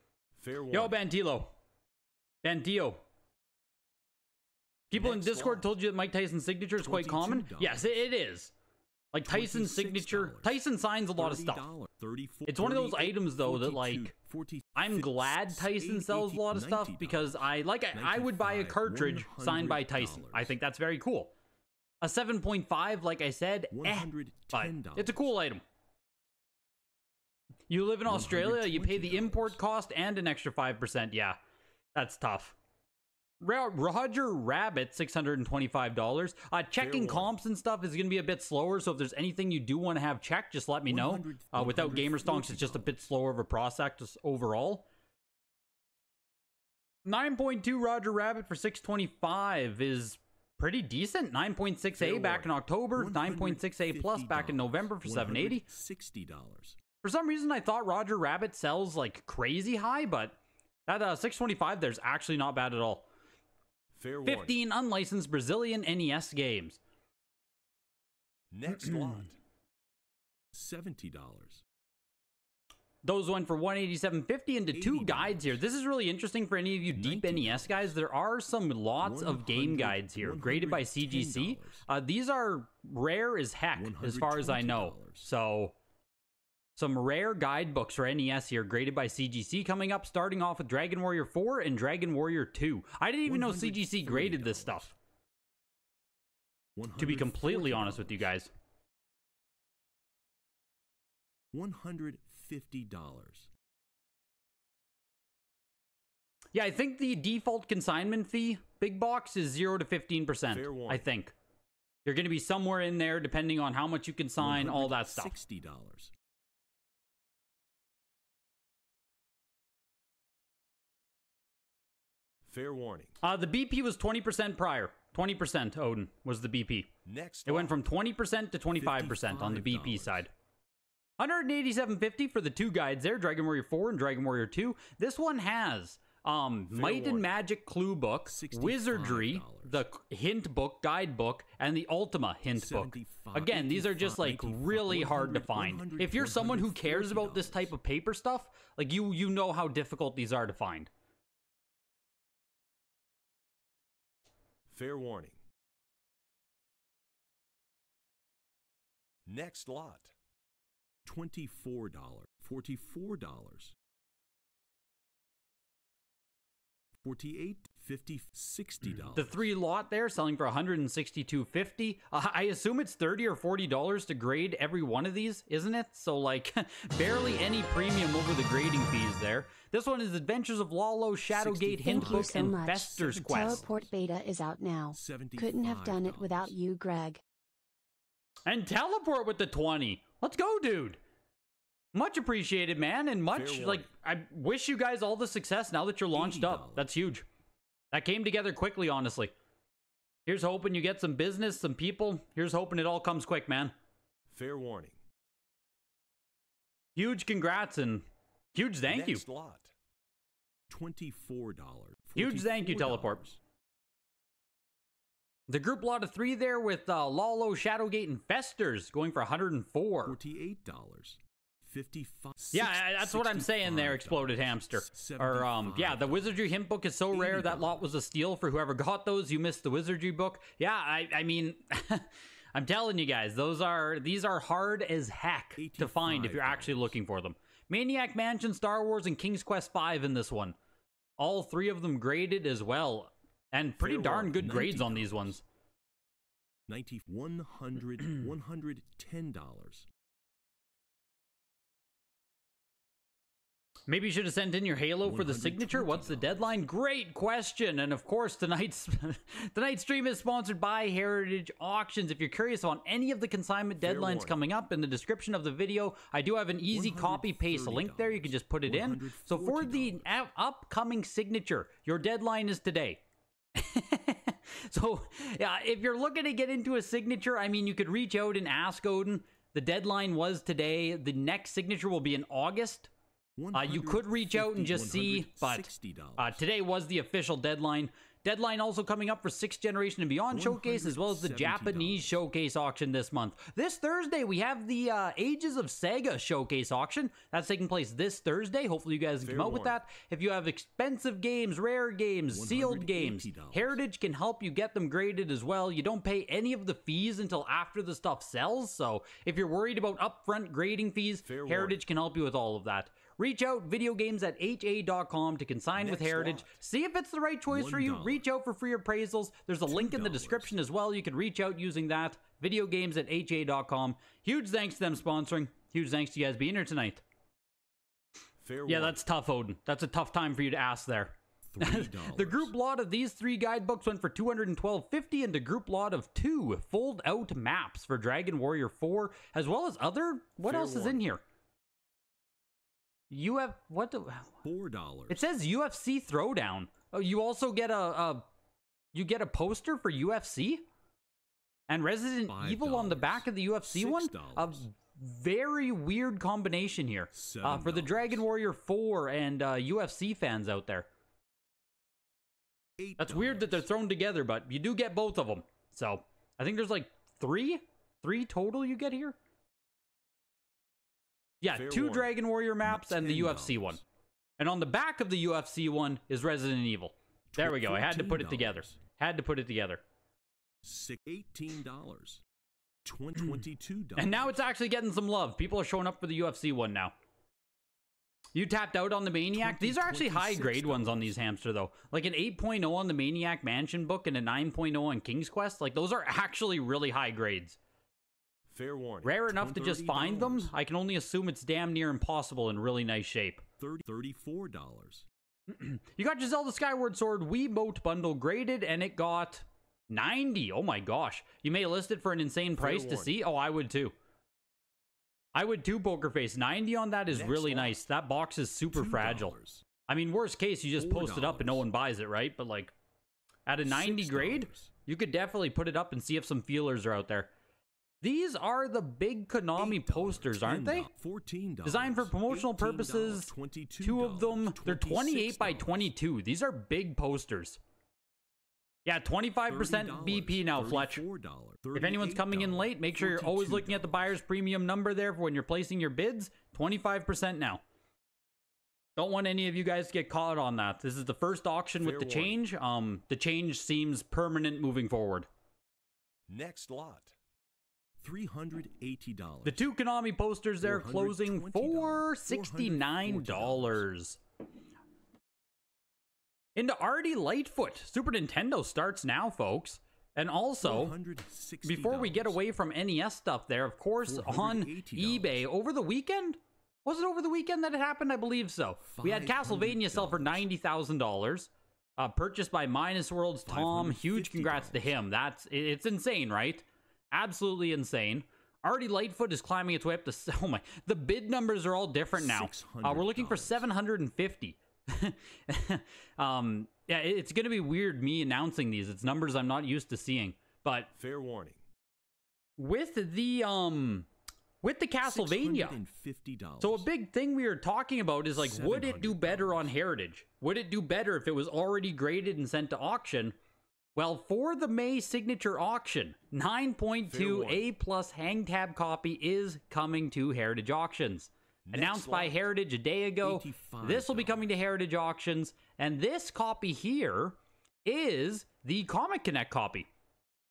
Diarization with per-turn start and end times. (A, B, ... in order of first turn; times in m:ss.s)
0:00.4-0:01.0 A
0:00.7-0:01.5 B
0:02.4-0:03.0 B
0:04.9-0:05.7 A
0:04.9-0:08.5 B
0:06.8-0:08.0 A
0:09.1-0:11.7 B
0:09.2-0:10.6 A
0:11.2-0:20.6 A
0:12.5-0:14.1 B
0:14.7-0:21.3 B
0:22.0-0:25.6 B
0:23.7-0:25.3 A
0:27.7-0:31.4 B
0:28.0-0:29.6 A
0:31.9-0:32.6 B
0:33.4-0:44.8 B
0:36.8-0:37.3 A
0:40.8-0:43.0 A
0:47.0-0:55.6 B
0:51.9-0:56.8 A
0:57.0-1:03.0 B
1:03.9-1:04.5 A
1:04.2-1:06.8 B
1:08.5-1:09.4 A
1:08.7-1:09.2 B
1:10.5-1:11.6 A
1:13.0-1:25.7 B
1:14.7-1:15.6 A
1:16.9-1:18.0 A
1:19.0-1:21.8 A
1:23.7-1:25.3 A
1:26.8-1:34.9 B
1:33.2-1:34.9 A
1:36.8-1:38.3 A
1:37.0-1:38.5 B
1:41.5-1:43.5 A
1:46.5-1:51.3 B
1:50.5-1:51.0 A
1:52.0-1:55.4 B
1:54.4-1:56.1 A
2:02.4-2:03.1 A
2:03.2-2:06.9 B
2:07.0-2:07.8 A
2:07.4-2:10.3 B
2:08.7-2:10.3 A
2:11.2-2:30.9 B
2:16.7-2:17.3 A
2:18.2-2:19.8 A
2:22.5-2:27.7 A
2:34.7-2:35.4 A
2:39.3-2:40.1 A
2:41.0-2:43.8 A
2:47.0-2:49.5 A
2:49.1-3:03.6 B
2:57.0-2:57.6 A
3:01.3-3:03.9 A
3:01.8-3:07.2 C
3:04.9-3:06.5 A
3:08.4-3:11.0 B
3:11.9-3:17.2 B
3:13.3-3:13.9 A
3:16.1-3:16.9 A
3:17.9-3:19.3 B
3:20.2-3:23.7 B
3:24.3-3:25.0 A
3:26.9-3:29.2 B
3:28.9-3:29.7 A
3:30.7-3:33.4 A
3:32.2-3:33.2 B
3:35.5-3:40.2 B
3:40.0-3:46.6 A
3:42.5-4:00.6 B
3:47.1-3:47.9 A
3:55.6-3:57.0 A
4:01.2-4:05.4 B
4:03.8-4:05.4 A
4:06.7-4:09.9 A
4:13.9-4:33.0 B
4:15.0-4:16.6 A
4:23.8-4:24.3 A
4:26.7-4:30.2 A
4:33.5-4:42.9 B
4:43.4-4:46.4 A
4:43.5-5:27.0 B
4:50.3-4:52.2 A
4:59.2-4:59.8 A
5:02.3-5:03.8 A
5:11.2-5:11.8 A
5:15.8-5:16.6 A
5:17.5-5:18.2 A
5:19.7-5:20.6 A
5:28.4-5:29.0 A
5:28.6-5:41.2 B
5:31.4-5:32.5 A
5:40.4-5:41.0 A
5:43.1-5:44.3 B
5:44.4-5:45.3 A
5:45.1-5:48.2 B
5:48.9-5:50.6 B
5:51.7-6:00.9 B
5:52.3-5:54.6 A
5:57.1-5:58.2 A
6:02.8-6:03.7 A
6:03.0-6:09.2 B
6:11.4-6:13.8 B
6:11.5-6:13.8 A
6:14.4-6:19.8 B
6:17.3-6:18.8 A
6:20.6-6:22.2 A
6:22.8-6:24.5 A
6:24.0-6:26.9 B
6:28.3-6:37.6 B
6:29.3-6:31.3 A
6:38.5-6:40.5 A
6:39.0-6:43.4 B
6:43.6-6:45.1 A
6:45.5-6:53.9 B
6:52.5-6:53.1 A
6:55.3-6:59.3 B
6:57.1-6:57.8 A
6:58.7-6:59.6 A
6:59.9-7:02.7 B
7:00.8-7:01.6 A
7:03.4-7:07.3 B
7:03.6-7:04.7 A
7:08.0-7:10.9 B
7:09.6-7:15.9 A
7:11.6-7:17.6 B
7:18.8-7:21.0 B
7:19.5-7:24.2 A
7:21.7-7:27.6 B
7:29.0-7:35.3 B
7:31.8-7:32.4 A
7:36.3-7:37.1 A
7:38.0-7:39.7 A
7:39.4-7:44.2 B
7:40.6-7:43.8 A
7:46.6-7:50.9 B
7:50.6-7:52.4 A
7:51.6-8:20.9 B
7:54.0-7:55.4 A
7:58.8-8:00.5 A
8:03.4-8:05.0 A
8:12.1-8:13.7 A
8:20.9-8:21.6 A
8:22.6-8:24.1 B
8:24.6-8:25.8 B
8:25.0-8:26.9 A
8:26.6-8:33.4 B
8:28.3-8:29.7 A
8:33.9-8:49.9 B
8:37.0-8:37.7 A
8:41.7-8:42.4 A
8:43.2-8:44.5 A